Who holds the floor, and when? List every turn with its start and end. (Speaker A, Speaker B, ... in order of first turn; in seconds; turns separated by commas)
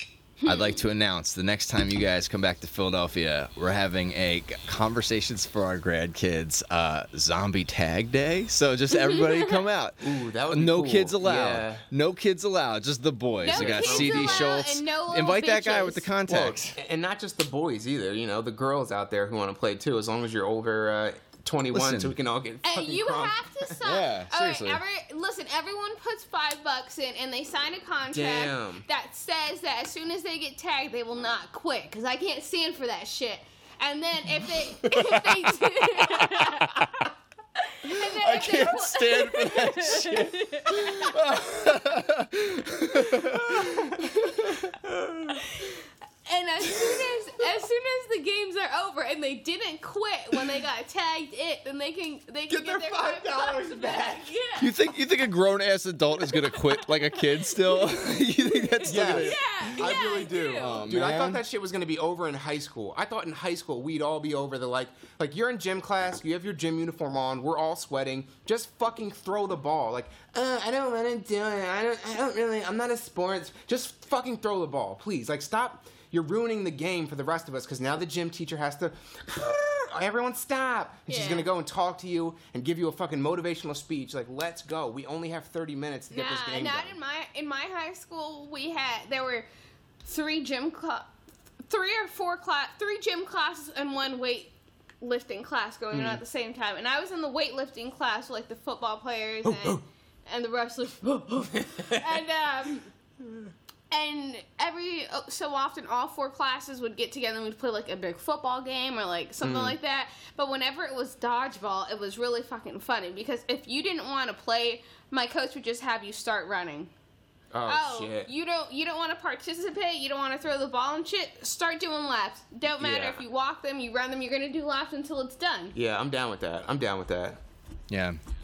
Speaker A: 0.4-16.8, Speaker B: 0.4-0.8, Speaker B: 9.0-9.5, Speaker C: 10.0-11.8, Speaker B: 13.4-16.1, Speaker C: 13.5-14.6, Speaker C: 16.3-23.8, Speaker A: 21.7-22.1, Speaker B: 22.6-41.2, Speaker A: 23.8-24.8, Speaker C: 28.1-28.8, Speaker A: 34.8-37.0, Speaker A: 37.8-44.6, Speaker C: 43.2-44.0, Speaker B: 44.0-44.4, Speaker C: 44.7-45.4, Speaker B: 45.3-54.8, Speaker C: 46.7-47.0, Speaker C: 52.5-54.3, Speaker A: 54.6-59.9, Speaker B: 56.2-60.9, Speaker C: 58.9-86.9, Speaker A: 60.5-61.4, Speaker B: 81.1-81.5, Speaker B: 86.1-89.5, Speaker B: 90.0-91.1, Speaker B: 91.7-102.9, Speaker C: 95.9-96.2, Speaker C: 99.4-99.8, Speaker C: 101.8-102.1, Speaker B: 103.9-116.9, Speaker C: 109.4-109.8, Speaker C: 117.5-118.3, Speaker B: 117.7-125.8, Speaker C: 122.8-123.2, Speaker C: 125.7-127.4, Speaker A: 127.9-128.2